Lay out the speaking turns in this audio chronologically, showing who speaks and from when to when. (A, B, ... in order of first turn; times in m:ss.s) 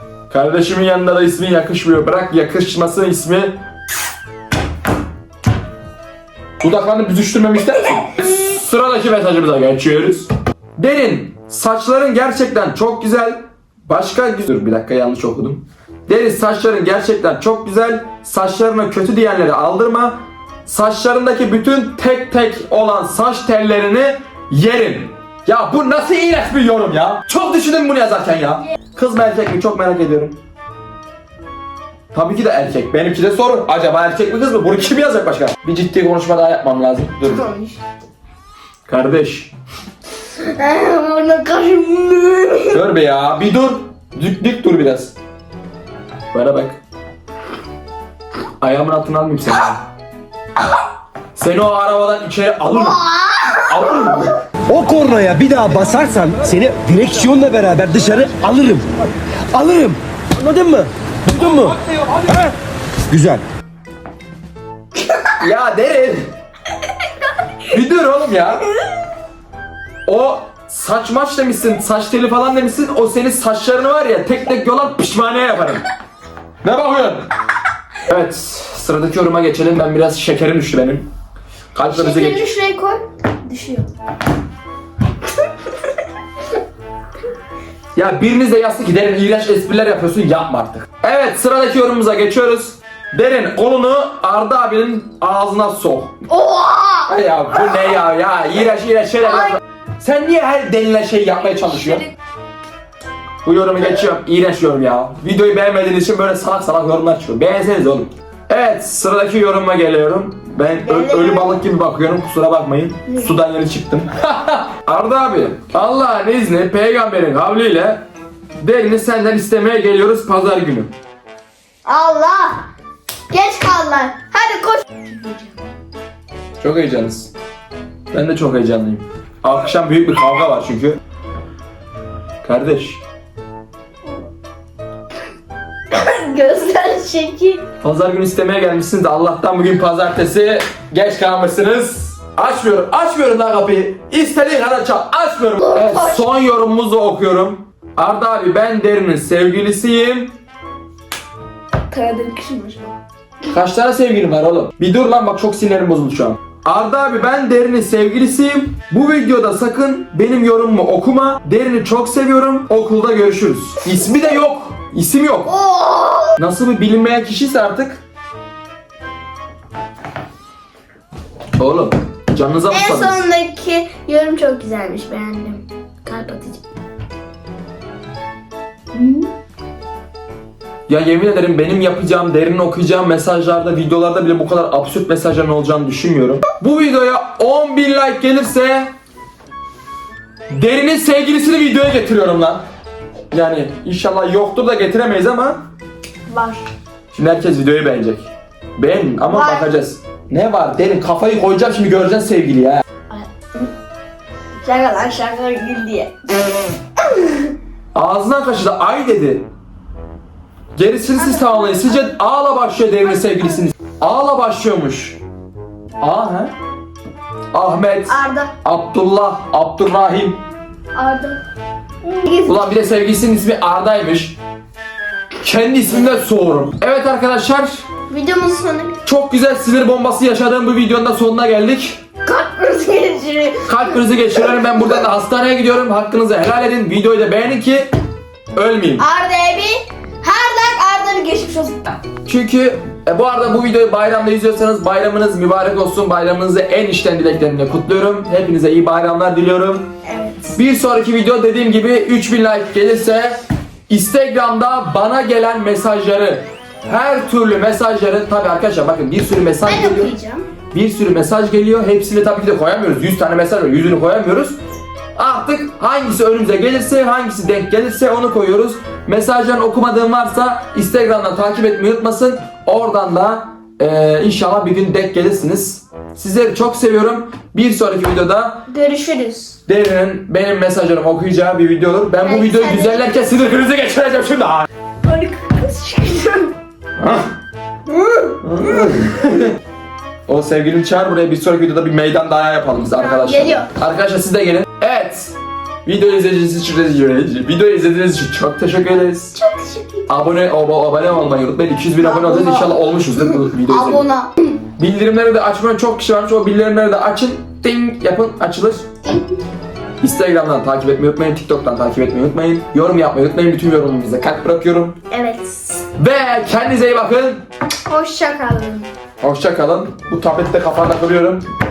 0:00.3-0:03.6 A
0:06.6-0:30.4 A
0:32.1-0:37.5 A
0:37.2-0:37.8 B
0:38.9-0:39.5 A
0:40.4-0:42.8 B
0:42.7-0:45.1 A
0:46.3-0:46.8 A
0:48.6-0:49.8 A
0:51.4-0:53.0 A
0:52.7-0:53.8 B
0:53.7-0:54.4 A
0:54.7-0:58.8 C
0:59.5-1:02.5 C
1:03.1-1:03.4 C
1:05.4-1:06.3 A
1:07.6-1:08.7 A
1:10.0-1:15.8 A
1:16.6-1:17.2 A
1:18.1-1:21.1 A
1:21.7-1:22.5 A
1:21.9-1:23.9 B
1:27.9-1:36.1 A
1:36.3-1:37.1 B
1:37.0-1:42.1 A
1:43.4-1:58.0 A
1:50.9-1:51.6 B
1:53.1-1:53.3 B
1:58.6-2:00.9 A
2:01.8-2:02.7 B
2:03.3-2:05.7 B
2:06.6-2:07.3 A
2:08.1-2:11.0 A
2:12.4-2:13.0 A
2:15.9-2:17.6 B
2:17.8-2:30.4 A
2:25.6-2:26.2 B
2:31.9-2:33.0 B
2:33.5-2:45.5 A
2:45.4-2:46.4 B
2:46.4-2:48.0 A
2:51.6-2:53.2 A
2:52.7-2:56.6 B
2:58.9-2:59.3 B
3:00.9-3:08.9 A
3:10.5-3:12.6 A
3:13.3-3:15.6 A
3:16.3-3:16.7 B
3:17.1-3:22.8 A
3:19.3-3:19.7 B
3:23.1-3:23.7 B
3:24.6-3:27.5 B
3:27.9-3:29.5 A
3:30.7-3:35.2 A
3:31.2-3:32.0 B
3:36.0-3:36.5 A
3:37.5-3:40.4 A
3:38.1-3:38.5 B
3:40.9-3:41.4 B
3:42.0-3:42.6 B
3:42.4-3:44.4 A
3:45.4-3:47.8 A
3:48.1-3:49.0 B
3:49.0-3:52.0 A
3:52.2-3:54.0 B
3:53.6-3:57.9 A
3:58.5-3:59.0 A
3:59.0-4:02.0 B
4:02.2-4:09.9 A
4:10.0-4:10.6 B
4:10.6-4:20.1 A
4:19.6-4:20.5 B
4:20.7-4:24.6 A
4:25.2-4:38.6 A
4:38.7-4:39.6 B
4:39.7-4:44.7 A
4:42.2-4:43.0 B
4:45.0-4:46.5 B
4:47.0-4:47.3 A
4:47.9-4:48.9 B
4:48.4-4:49.5 A
4:50.3-4:59.4 A
4:52.9-4:53.7 B
4:59.4-5:00.1 B
5:00.1-5:04.0 A
5:02.0-5:02.7 B
5:03.4-5:04.5 B
5:04.8-5:08.8 A
5:09.0-5:09.4 B
5:10.0-5:15.0 A
5:15.1-5:15.8 B
5:16.0-5:17.4 A
5:17.9-5:18.9 B
5:19.2-5:21.4 A